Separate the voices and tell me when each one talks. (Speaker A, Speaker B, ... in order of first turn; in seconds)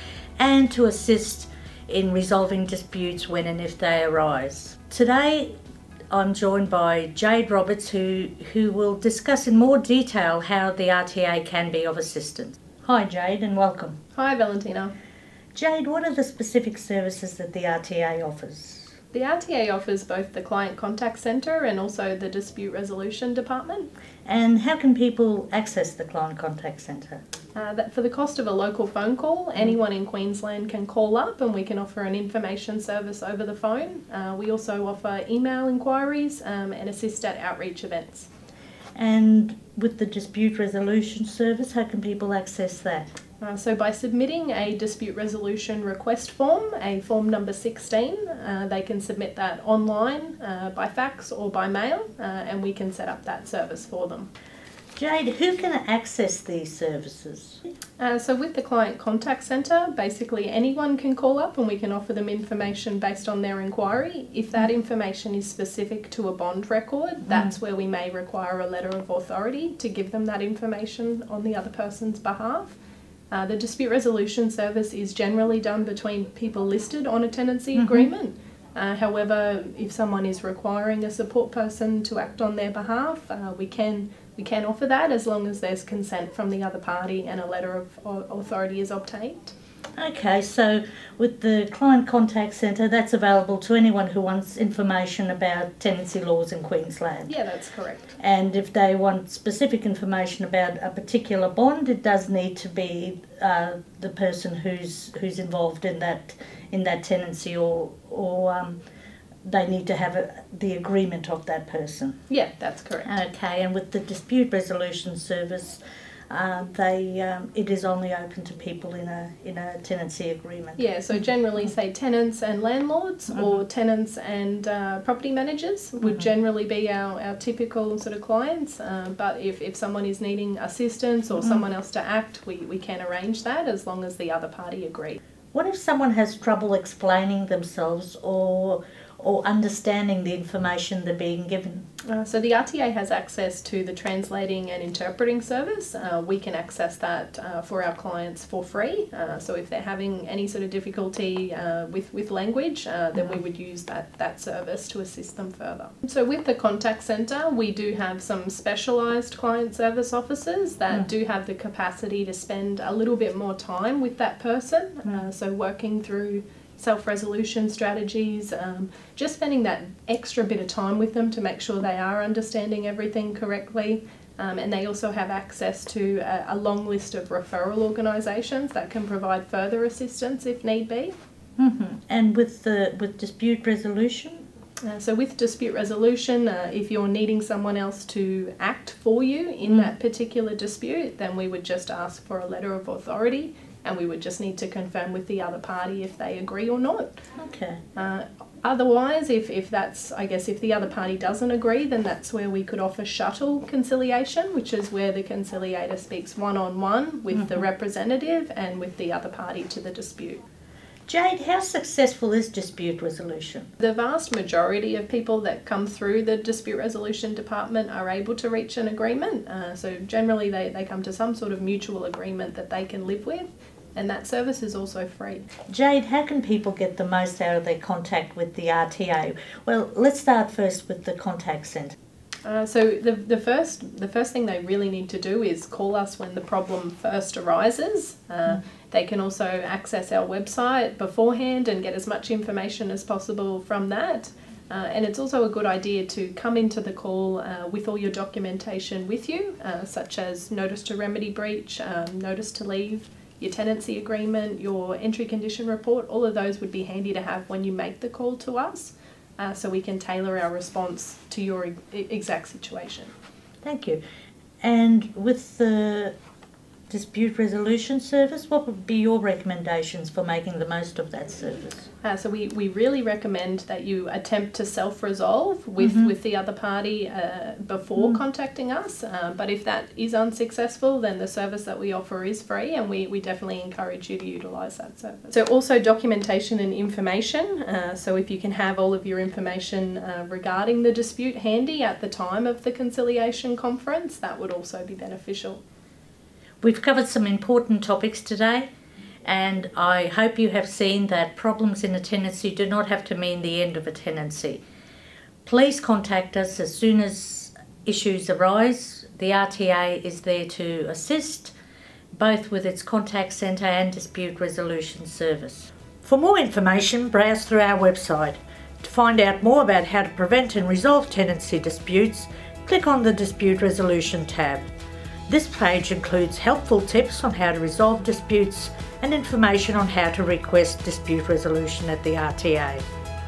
Speaker A: 0.4-5.5, 6.1-14.0, 15.5-18.9, 24.2-27.2, 39.0-43.1, 55.0-57.6, 67.3-67.5, 77.7-78.1, 90.0-97.3, 98.2-108.8, 109.4-112.2, 113.0-120.8, 131.4-131.6, 135.5-141.8, 181.6-184.4, 189.7-189.9, 197.4-197.8, 207.3-207.6, 211.1-213.7, 225.7-231.9, 263.6-264.0, 264.6-266.1, 266.9-271.9, 275.8-276.1, 296.6-298.7, 299.2-304.6, 305.4-311.5, 312.1-324.7, 325.3-332.8
Speaker B: 14.1-14.9, 19.1-23.9, 27.5-38.3, 43.4-54.3, 58.0-72.8, 73.3-89.5, 97.3-98.1, 112.3-113.1, 120.8-135.2, 142.1-181.1, 184.8-197.2, 197.9-210.4, 213.8-225.5, 232.4-263.1, 272.0-295.6